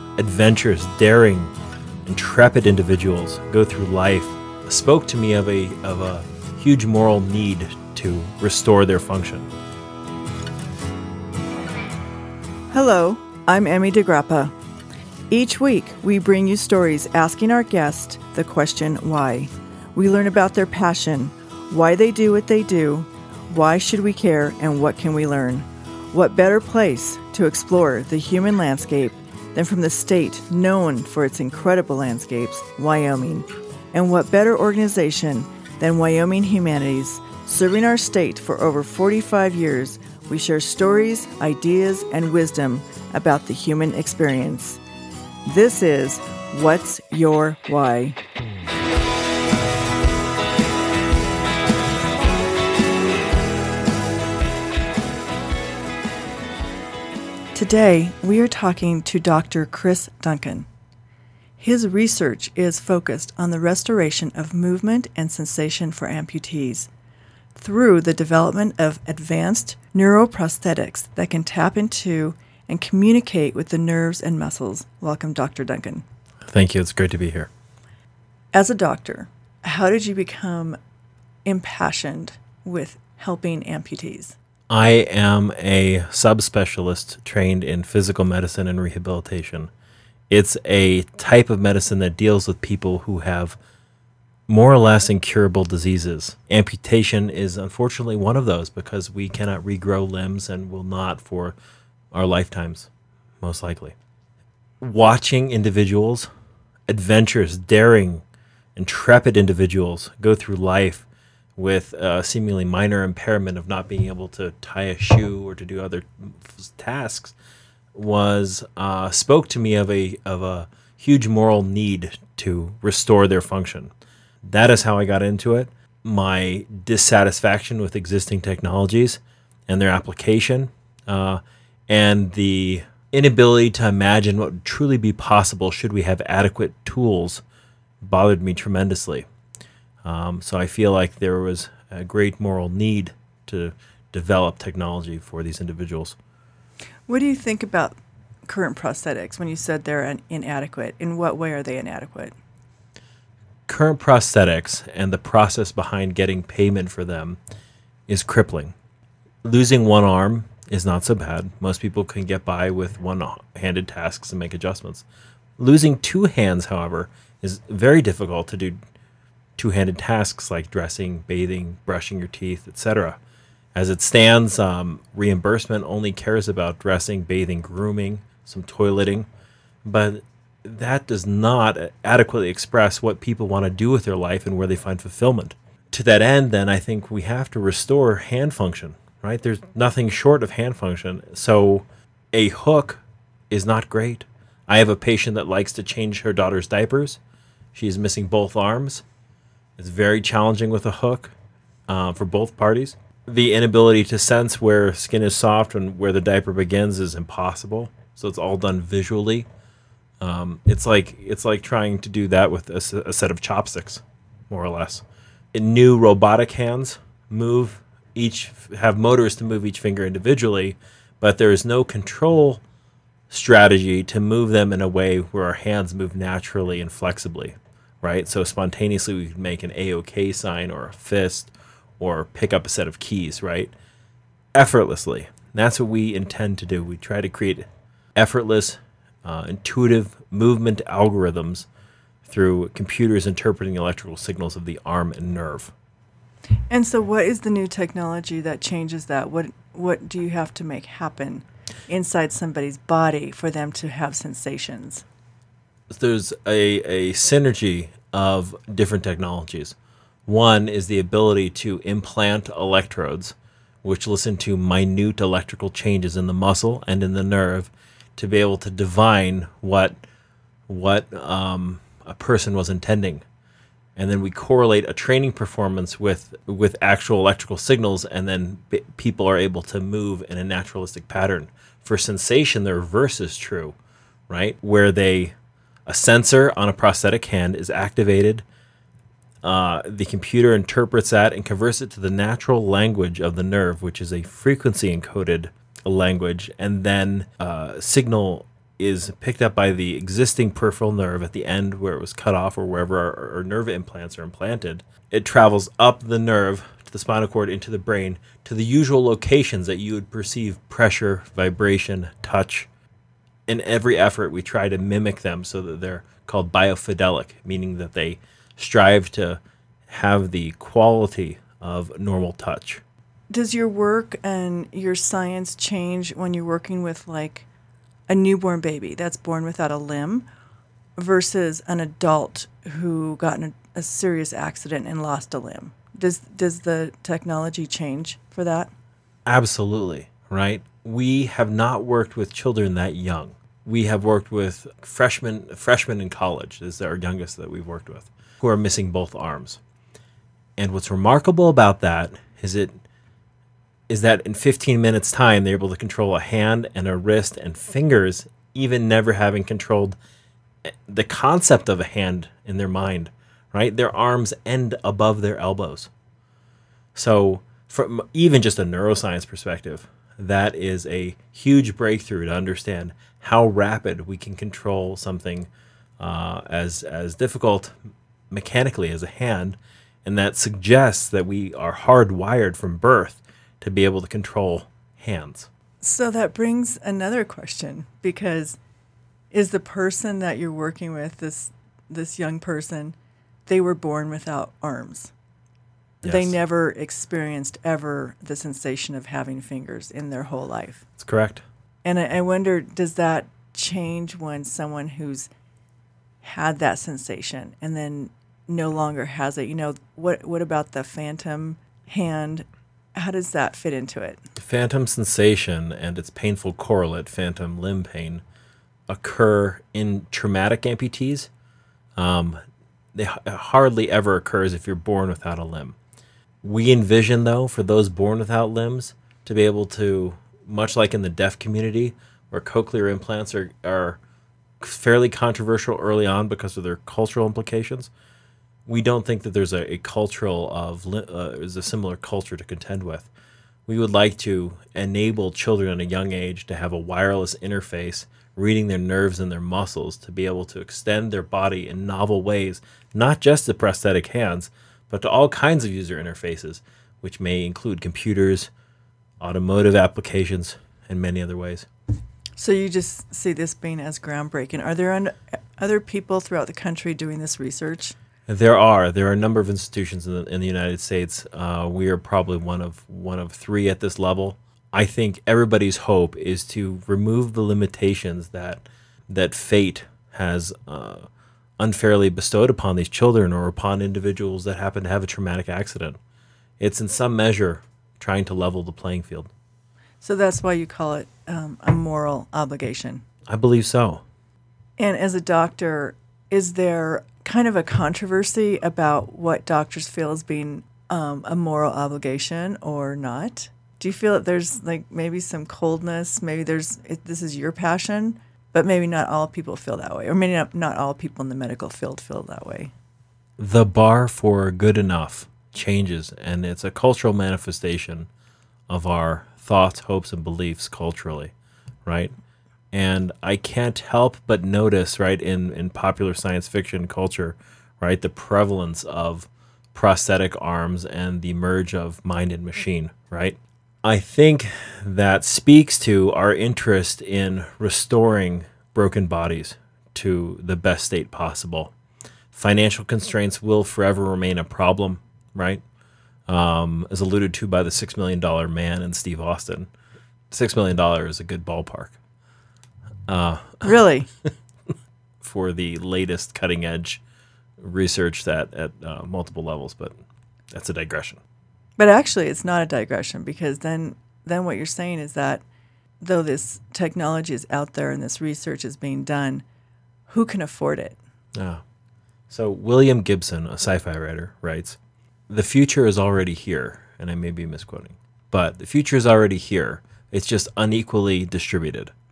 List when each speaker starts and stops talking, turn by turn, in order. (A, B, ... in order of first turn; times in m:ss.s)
0:00.2-0:01.5 A
0:02.1-0:09.5 A
0:12.7-0:14.6 B
0:15.3-0:44.8 B
0:45.4-0:48.2 B
0:57.5-1:00.7 B
1:01.6-1:06.9 B
1:07.6-1:16.0 B
1:16.5-1:17.5 A
1:18.5-1:20.8 B
1:21.4-1:24.4 B
1:24.7-1:29.7 A
1:30.3-1:33.6 A
1:34.5-1:41.6 A
1:42.1-1:42.9 A
1:43.4-1:44.0 A
1:44.8-1:46.3 A
1:46.9-1:48.2 A
1:48.8-1:57.4 A
1:57.9-2:03.9 A
2:04.5-2:17.4 A
2:18.0-2:19.3 A
2:20.0-2:26.2 A
2:27.1-2:28.0 B
2:28.5-2:32.3 B
2:33.7-2:37.4 A
2:38.1-2:38.8 A
2:39.4-2:45.0 A
2:45.6-2:48.8 A
2:49.6-2:53.2 A
2:53.8-2:59.3 A
2:59.8-3:17.2 A
3:17.8-3:19.0 A
3:19.8-3:21.3 A
3:21.9-3:29.5 A
3:30.2-3:42.6 A
3:43.3-3:53.7 A
3:54.6-4:01.7 A
4:02.2-4:05.7 A
4:06.7-4:15.0 B
4:15.9-4:30.0 A
4:30.7-4:33.2 A
4:34.0-4:43.8 A
4:44.3-4:45.4 A
4:45.9-4:48.4 A
4:49.4-5:12.7 A
5:13.5-5:22.8 A
5:23.3-5:27.5 B
5:28.1-5:30.3 B
5:31.0-5:38.7 B
5:39.3-5:49.6 A
5:50.6-5:52.8 A
5:53.9-6:00.0 A
6:00.7-6:05.9 A
6:07.0-6:17.8 A
6:18.3-6:25.5 A
6:25.8-6:28.6 B
6:29.3-6:35.1 B
6:36.0-6:36.4 A
6:36.0-6:40.8 B
6:41.0-6:41.4 A
6:41.8-6:45.3 B
6:46.2-6:54.2 B
6:54.4-6:58.2 A
6:58.9-7:01.3 A
7:02.0-7:02.4 A
7:02.9-7:05.8 A
7:06.4-7:14.0 A
7:14.6-7:17.9 A
7:18.7-7:23.1 A
7:23.7-7:38.5 A
7:39.2-7:41.7 A
7:42.4-7:48.0 B
7:48.3-8:01.1 A
8:01.6-8:06.0 A
8:06.6-8:09.3 A
8:10.0-8:13.0 B
8:13.3-8:14.0 A
8:14.8-8:32.7 B
8:33.4-8:38.1 A
8:38.7-8:41.3 A
8:41.9-8:42.1 A
8:42.7-9:01.7 A
9:02.3-9:05.6 A
9:06.3-9:09.7 A
9:10.3-9:12.0 A
9:13.1-9:13.8 A
9:13.6-9:14.1 B
9:15.2-9:17.0 A
9:17.6-9:20.0 A
9:20.5-9:21.2 A
9:21.8-9:25.4 B
9:26.0-9:29.4 B
9:30.1-9:31.0 B
9:31.4-9:31.6 A
9:32.3-9:41.9 A